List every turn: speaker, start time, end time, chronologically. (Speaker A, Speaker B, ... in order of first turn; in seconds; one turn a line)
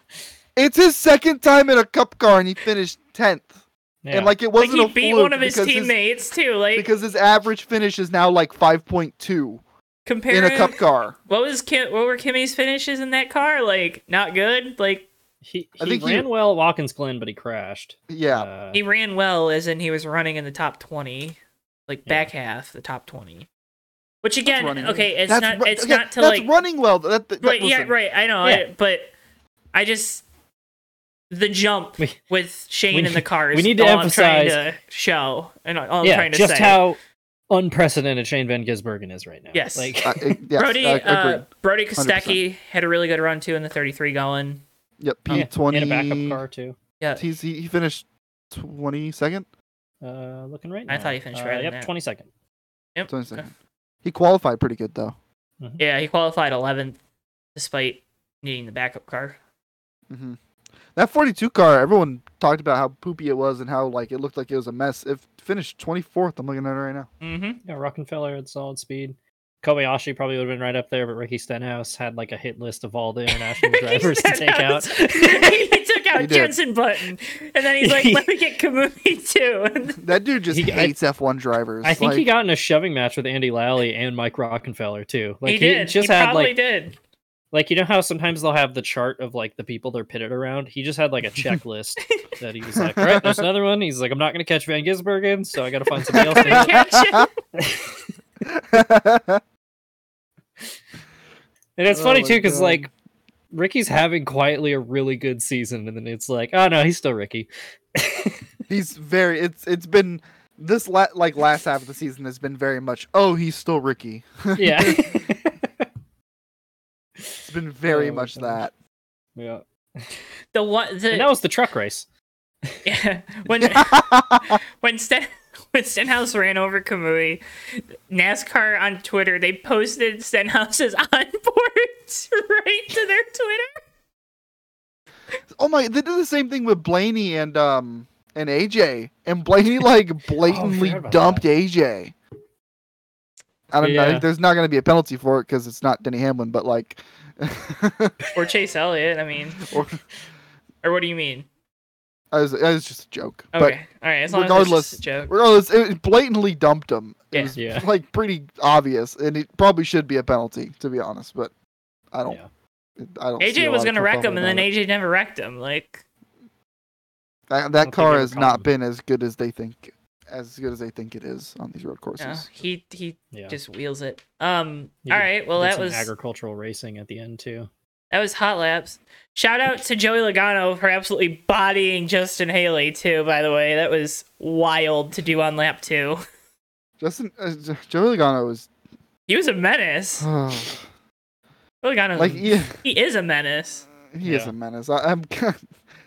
Speaker A: 0.6-3.5
Speaker B: 4.0-4.3
Speaker A: 4.1-5.9
Speaker C: 4.6-6.9
Speaker A: 6.7-9.6
Speaker C: 10.1-15.1
Speaker A: 10.3-11.2
Speaker B: 15.4-18.8
Speaker A: 15.8-16.3
Speaker A: 18.1-18.5
Speaker C: 18.7-23.5
Speaker B: 22.1-22.3
Speaker C: 24.2-26.5
Speaker A: 24.4-27.9
Speaker C: 27.4-29.1
Speaker C: 29.7-30.2
Speaker C: 31.3-36.8
Speaker B: 32.9-34.6
Speaker B: 36.0-37.0
Speaker B: 37.5-40.4
Speaker C: 39.5-40.0
Speaker A: 40.0-41.4
Speaker C: 40.5-44.6
Speaker A: 42.0-42.4
Speaker A: 45.0-46.4
Speaker B: 45.3-46.8
Speaker A: 47.2-49.5
Speaker B: 50.0-52.3
Speaker C: 50.9-51.9
Speaker C: 53.0-53.5
Speaker A: 53.1-53.5
Speaker A: 54.0-55.1
Speaker C: 55.8-57.0
Speaker C: 57.5-59.4
Speaker A: 60.1-60.4
Speaker A: 60.9-67.1
Speaker C: 67.2-67.6
Speaker B: 67.6-75.5
Speaker C: 73.3-80.0
Speaker A: 76.1-76.5
Speaker B: 77.8-78.3
Speaker A: 80.0-82.3
Speaker B: 80.5-80.9
Speaker B: 81.8-86.5
Speaker C: 85.4-87.0
Speaker B: 87.5-96.8
Speaker A: 92.8-93.5
Speaker C: 96.1-97.3
Speaker A: 96.1-97.3
Speaker B: 97.6-98.0
Speaker A: 98.4-99.4
Speaker B: 101.8-102.9
Speaker A: 101.9-102.9
Speaker B: 103.5-108.4
Speaker A: 108.7-115.3
Speaker B: 114.5-115.9
Speaker B: 117.2-118.6
Speaker A: 117.4-118.7
Speaker B: 119.3-120.1
Speaker C: 120.5-121.3
Speaker B: 121.1-122.1
Speaker C: 122.8-133.8
Speaker A: 123.6-124.6
Speaker A: 135.6-142.1
Speaker B: 140.4-141.4
Speaker A: 143.7-148.2
Speaker B: 143.8-144.2
Speaker C: 148.3-149.7
Speaker A: 149.6-150.0
Speaker C: 150.8-151.4
Speaker A: 152.3-153.8
Speaker C: 153.5-155.3
Speaker A: 154.3-161.5
Speaker B: 157.5-157.9
Speaker A: 162.1-162.4
Speaker A: 163.0-164.7
Speaker C: 163.4-166.0
Speaker A: 167.5-172.5
Speaker B: 167.8-168.7
Speaker C: 172.2-176.1
Speaker B: 175.1-177.7
Speaker C: 178.1-186.2
Speaker A: 187.0-188.7
Speaker C: 189.3-190.3
Speaker A: 190.2-190.8
Speaker C: 191.8-193.8
Speaker A: 192.2-192.8
Speaker A: 194.1-195.7
Speaker B: 194.2-194.5